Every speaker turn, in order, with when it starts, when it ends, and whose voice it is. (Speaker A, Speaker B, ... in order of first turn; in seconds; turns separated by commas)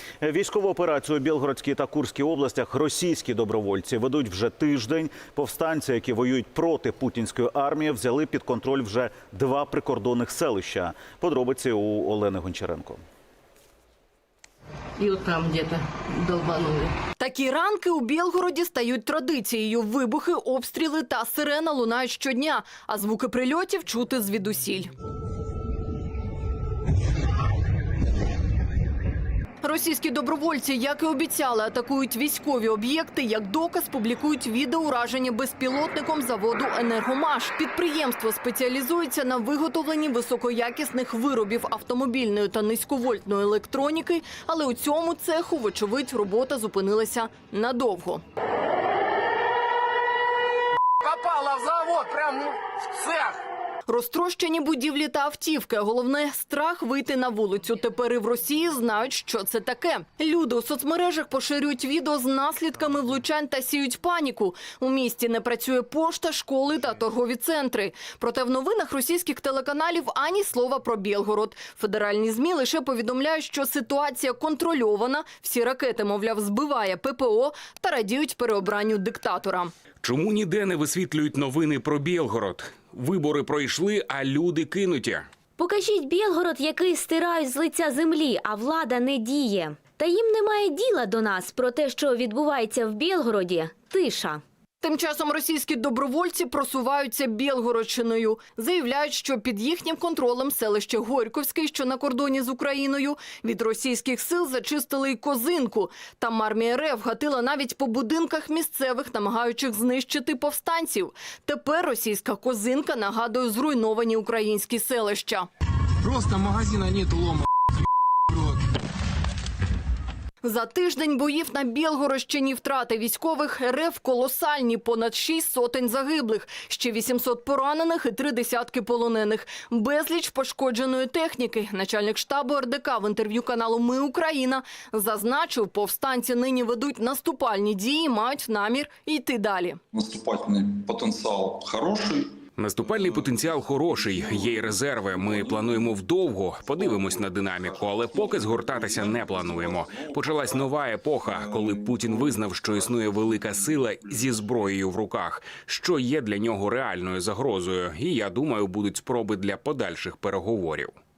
Speaker A: 0.2-13.0, Speaker B: 15.0-16.9, Speaker C: 17.2-24.9, Speaker C: 29.6-48.2, Speaker D: 51.1-53.3, Speaker C: 53.9-79.7, Speaker E: 80.0-85.3, Speaker F: 85.6-94.4, Speaker C: 94.8-115.5, Speaker C: 120.4-139.8, Speaker G: 139.9-142.3, Speaker E: 142.6-160.9, Speaker G: 142.9-144.6, Speaker G: 145.2-145.8, Speaker G: 146.8-147.1, Speaker G: 147.9-150.6, Speaker G: 151.3-153.2